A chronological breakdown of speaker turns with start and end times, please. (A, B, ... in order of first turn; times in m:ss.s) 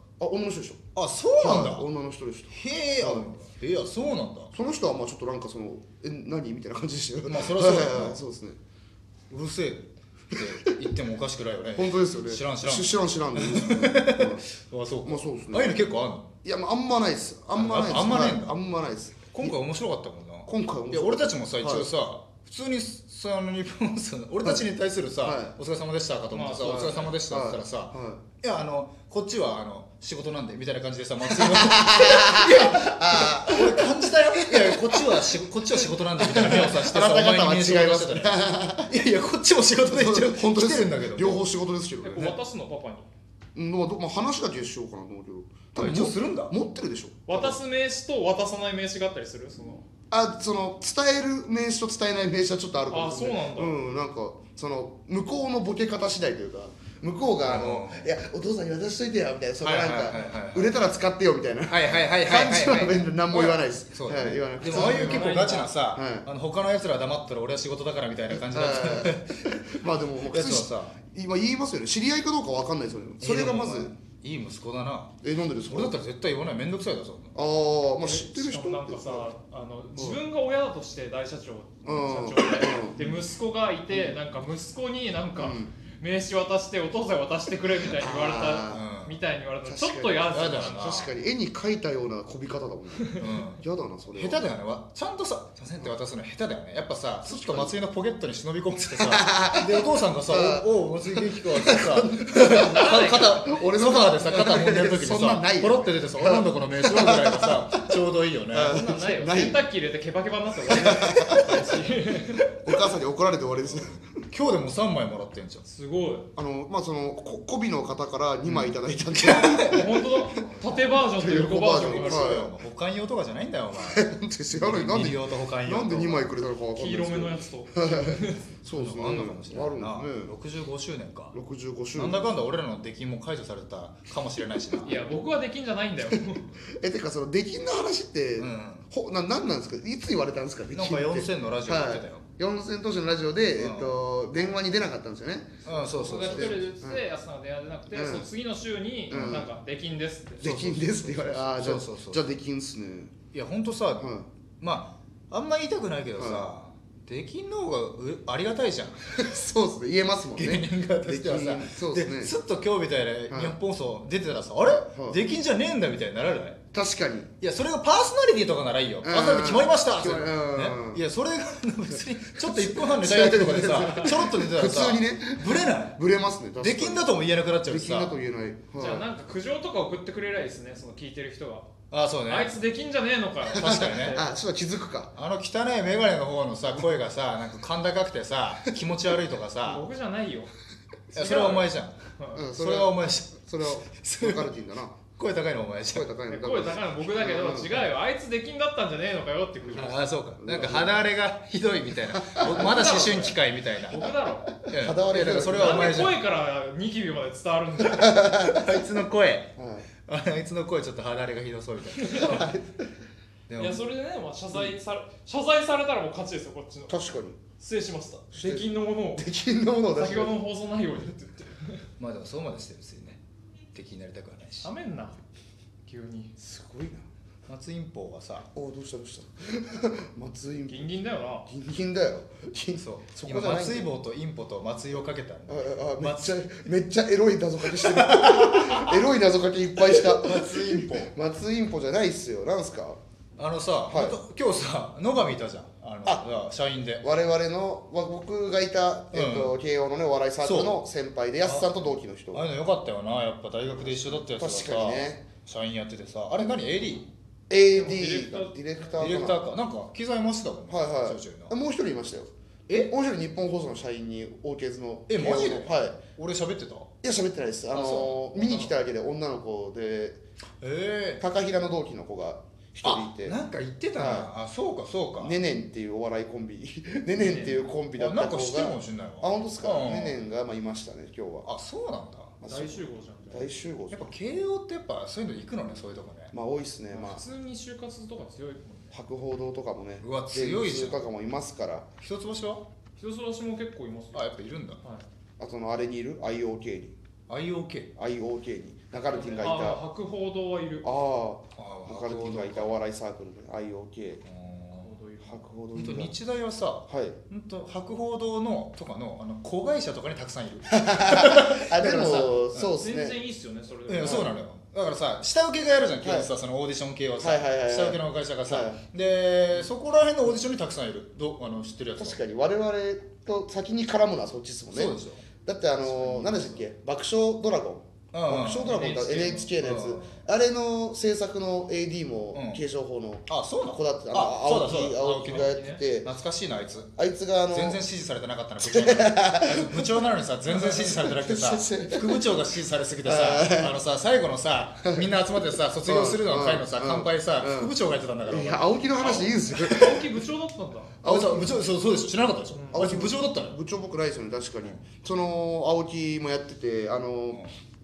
0:00.2-0:00.8 A
0:00.9-0:01.9 B
0:01.4-0:03.3 A
0:02.5-0:04.5 B
0:04.5-0:08.6 A
0:07.2-0:08.2 B
0:09.3-0:16.3 B
0:11.7-0:14.5 A
0:15.0-0:15.8 A
0:16.4-0:19.6 A
0:17.5-0:18.6 B
0:19.3-0:41.4 B
0:20.4-0:21.9 A
0:25.2-0:25.6 A
0:26.3-0:27.1 C
0:26.6-0:28.2 A
0:31.3-0:38.9 A
0:39.8-0:42.4 A
0:42.0-0:43.1 C
0:43.5-0:47.6 A
0:45.7-0:46.5 B
0:47.3-0:49.8 C
0:50.1-1:06.3 A
0:52.9-0:53.8 C
0:57.4-0:58.1 B
0:59.6-1:00.8 B
1:01.7-1:11.0 B
1:04.6-1:05.8 C
1:08.3-1:13.9 A
1:13.2-1:15.1 B
1:15.2-1:16.0 A
1:15.7-1:17.3 B
1:17.3-1:19.3 A
1:18.0-1:31.1 C
1:19.9-1:20.2 A
1:21.8-1:23.2 A
1:23.9-1:24.2 A
1:25.4-1:25.7 A
1:27.9-1:28.9 A
1:28.7-1:29.2 B
1:29.6-1:34.4 A
1:30.3-1:31.1 B
1:33.2-1:33.6 B
1:34.1-1:48.8 B
1:37.2-1:37.8 A
1:39.0-1:48.0 A
1:42.5-1:43.4 C
1:48.5-1:49.6 A
1:48.6-1:52.4 C
1:50.7-1:51.4 A
1:52.6-1:54.1 A
1:53.8-1:55.6 B
1:55.6-1:56.3 C
1:56.4-2:00.0 A
1:58.4-2:00.7 B
1:59.6-2:02.4 C
2:00.9-2:02.5 A
2:01.6-2:04.0 B
2:03.8-2:10.4 A
2:04.6-2:06.3 B
2:06.7-2:08.5 C
2:08.7-2:11.3 B
2:11.3-2:12.3 A
2:11.9-2:14.9 B
2:14.8-2:16.5 C
2:16.8-2:27.0 A
2:18.4-2:18.9 B
2:20.7-2:22.2 B
2:23.6-2:24.0 B
2:25.6-2:26.7 B
2:25.9-2:30.6 C
2:27.9-2:28.3 A
2:29.1-2:29.5 A
2:30.4-2:33.2 A
2:30.4-2:32.2 B
2:33.3-2:34.0 B
2:34.0-2:34.3 A
2:34.6-2:39.3 B
2:36.2-2:36.5 A
2:39.2-2:42.4 A
2:40.3-2:46.6 B
2:43.3-2:43.6 A
2:44.9-2:45.2 A
2:46.7-2:47.3 A
2:47.4-2:56.0 B
2:49.0-2:51.0 A
2:52.4-2:59.1 A
2:56.6-2:58.2 B
2:58.8-3:01.7 C
3:01.9-3:02.5 B
3:02.3-3:04.3 C
3:03.5-3:05.1 A
3:03.5-3:04.2 B
3:05.2-3:09.8 B
3:09.6-3:10.5 C
3:11.1-3:12.0 B
3:11.1-3:12.4 C
3:12.3-3:15.1 A
3:12.6-3:14.5 B
3:15.1-3:16.1 B
3:15.9-3:17.8 A
3:16.3-3:20.0 C
3:19.6-3:21.1 A
3:19.7-3:24.0 B
3:22.1-3:23.3 A
3:22.4-3:24.5 C
3:24.6-3:26.1 A
3:24.7-3:26.2 B
3:25.5-3:28.3 C
3:27.9-3:28.6 A
3:28.3-3:29.5 B
3:29.6-3:29.9 A
3:30.0-3:32.5 B
3:31.9-3:32.4 C
3:32.1-3:32.8 A
3:33.5-3:33.8 B
3:33.6-3:37.0 C
3:36.9-3:37.4 A
3:37.6-3:39.3 C
3:38.3-3:40.4 A
3:39.9-3:41.8 C
3:42.0-3:43.2 B
3:43.7-3:44.7 B
3:44.6-3:45.2 C
3:45.8-3:46.3 C
3:46.4-3:47.0 A
3:47.5-3:48.5 B
3:48.5-3:50.9 A
3:50.7-3:51.5 C
3:51.4-3:53.9 A
3:52.8-3:56.6 B
3:55.5-4:03.0 A
3:57.7-3:59.0 B
3:59.8-4:01.1 B
4:03.4-4:07.0 B
4:03.8-4:04.2 A
4:06.0-4:06.3 A
4:07.0-4:12.4 A
4:09.1-4:09.5 B
4:10.4-4:10.8 B
4:11.4-4:17.1 B
4:13.8-4:15.2 A
4:17.5-4:19.6 A
4:17.7-4:19.1 C
4:19.0-4:21.5 B
4:20.7-4:26.0 A
4:25.1-4:26.9 B
4:27.0-4:30.2 A
4:27.7-4:28.7 B
4:30.6-4:31.2 B
4:31.2-4:33.4 A
4:32.8-4:35.3 B
4:33.9-4:34.3 A
4:35.2-4:41.5 A
4:37.2-4:37.7 C
4:37.9-4:40.1 B
4:41.4-4:42.3 B
4:42.4-4:44.1 A
4:42.4-4:43.5 C
4:43.9-4:46.3 B
4:46.3-4:47.2 A
4:46.9-4:49.0 C
4:48.9-4:51.9 A
4:50.0-4:51.0 B
4:52.0-4:52.6 B
4:53.0-4:54.3 C
4:54.1-4:54.8 B
4:55.4-4:57.0 A
4:57.3-4:57.9 B
4:58.0-4:59.8 A
4:59.1-5:00.9 C
5:00.8-5:04.2 A
5:01.6-5:02.7 B
5:04.2-5:04.9 B
5:04.7-5:05.4 C
5:05.2-5:06.2 A
5:05.7-5:12.7 B
5:06.9-5:07.2 A
5:10.7-5:13.2 A
5:12.7-5:14.3 C
5:13.9-5:22.2 B
5:14.0-5:14.3 A
5:16.0-5:16.3 A
5:17.2-5:18.8 A
5:22.0-5:36.1 A
5:24.7-5:25.2 B
5:25.9-5:26.6 C
5:28.1-5:29.0 B
5:28.6-5:29.5 C
5:29.6-5:30.1 B
5:32.3-5:32.6 B
5:33.3-5:36.9 B
5:35.2-5:35.8 C
5:37.0-5:37.8 A
5:37.5-5:48.6 B
5:38.6-5:42.2 A
5:43.0-5:43.8 A
5:45.8-5:47.7 A
5:48.2-5:50.1 A
5:49.0-5:51.0 C
5:51.0-5:51.7 A
5:51.0-5:53.6 B
5:52.5-5:52.9 C
5:52.7-5:57.4 A